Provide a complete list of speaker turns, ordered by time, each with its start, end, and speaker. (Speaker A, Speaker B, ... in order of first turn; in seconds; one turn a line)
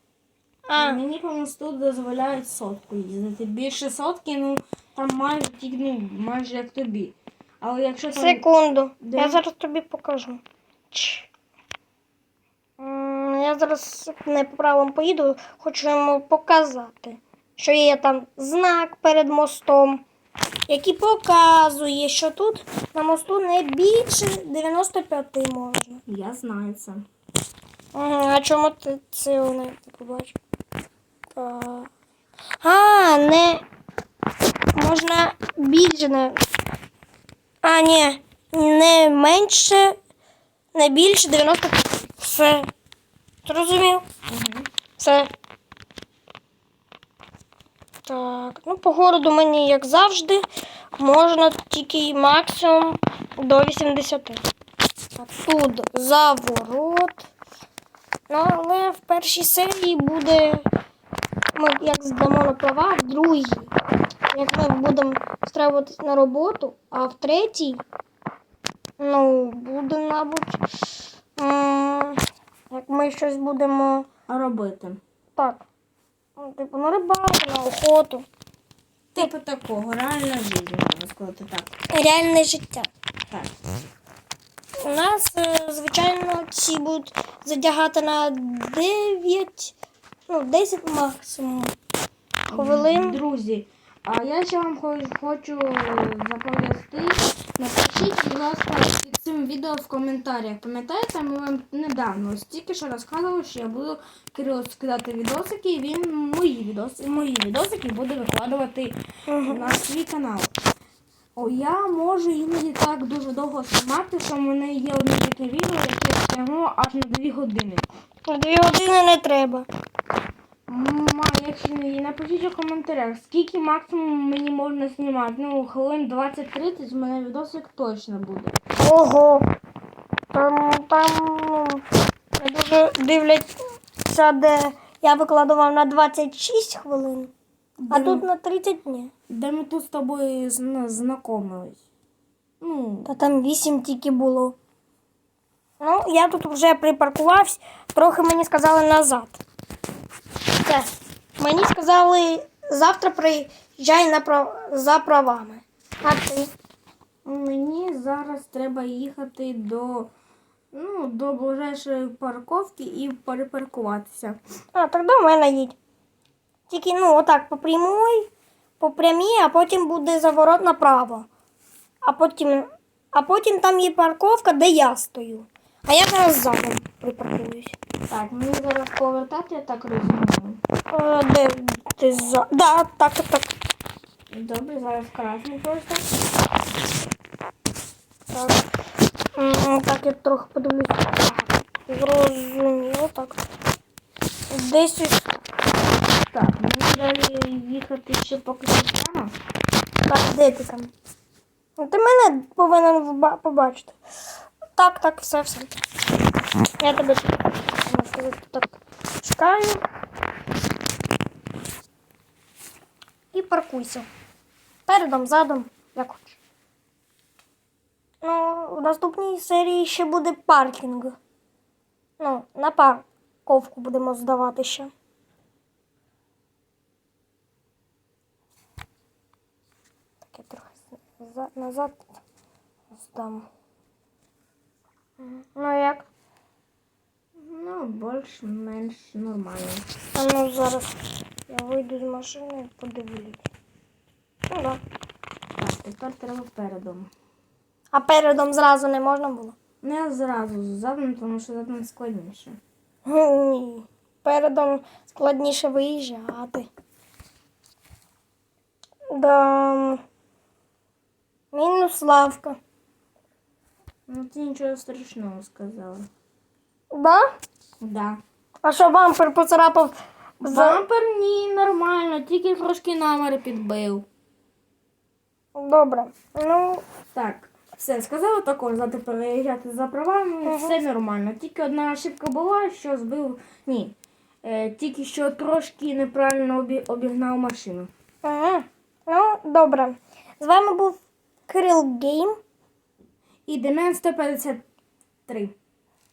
Speaker A: 0.7-1.0
Speaker B: 0.8-8.4
Speaker A: 8.1-10.4
Speaker B: 9.0-9.4
Speaker A: 10.9-11.3
Speaker A: 12.8-20.0
Speaker A: 20.7-26.0
Speaker B: 26.1-27.1
Speaker A: 27.9-30.4
Speaker A: 31.3-31.9
Speaker A: 32.6-33.6
Speaker A: 34.7-36.4
Speaker A: 37.6-40.0
Speaker A: 40.7-42.7
Speaker A: 43.4-44.0
Speaker B: 44.3-44.7
Speaker A: 45.0-45.3
Speaker A: 48.0-50.5
Speaker A: 51.0-54.4
Speaker A: 55.1-57.3
Speaker A: 58.3-60.7
Speaker A: 61.5-63.7
Speaker A: 64.3-67.8
Speaker A: 69.0-70.7
Speaker A: 71.4-74.1
Speaker B: 74.3-75.0
Speaker A: 76.4-78.3
Speaker B: 79.1-81.8
Speaker A: 81.9-82.9
Speaker A: 84.8-89.7
Speaker A: 90.3-91.7
Speaker A: 92.5-93.2
Speaker B: 92.5-110.5
Speaker A: 109.3-109.8
Speaker B: 111.3-117.9
Speaker A: 118.3-119.7
Speaker B: 120.7-128.6
Speaker A: 128.8-129.5
Speaker A: 130.3-131.8
Speaker A: 132.4-137.3
Speaker B: 137.8-138.2
Speaker A: 137.9-139.1
Speaker B: 139.3-141.8
Speaker B: 142.6-143.1
Speaker A: 143.0-144.6
Speaker A: 145.8-149.4
Speaker A: 150.6-156.5
Speaker B: 157.2-160.1
Speaker B: 160.7-164.4
Speaker A: 164.7-165.8
Speaker A: 166.7-171.3
Speaker A: 172.0-177.8
Speaker B: 178.1-180.6
Speaker A: 180.9-183.5
Speaker B: 184.3-186.1
Speaker A: 188.3-188.7
Speaker A: 189.3-193.4
Speaker A: 194.5-195.4
Speaker B: 196.3-199.3
Speaker A: 200.1-200.9
Speaker A: 201.8-204.0
Speaker A: 204.8-205.7
Speaker A: 206.8-209.8
Speaker A: 213.3-214.1
Speaker A: 214.9-216.4
Speaker A: 218.2-221.2
Speaker A: 222.2-224.9
Speaker A: 230.3-232.2
Speaker A: 232.9-233.5
Speaker A: 235.2-236.1
Speaker B: 237.3-239.8
Speaker A: 240.1-240.9
Speaker A: 241.5-243.4
Speaker A: 244.5-244.8
Speaker B: 245.6-247.1
Speaker A: 247.9-249.5
Speaker B: 249.8-252.6
Speaker A: 253.0-256.7
Speaker A: 259.1-260.0
Speaker A: 261.5-262.6
Speaker B: 264.1-266.1
Speaker A: 266.9-267.3
Speaker B: 267.8-268.2
Speaker A: 268.6-270.8
Speaker B: 270.4-274.1
Speaker A: 275.5-276.8
Speaker B: 277.1-287.9
Speaker A: 280.4-280.8
Speaker A: 288.2-292.4
Speaker B: 293.5-294.6
Speaker B: 295.3-295.5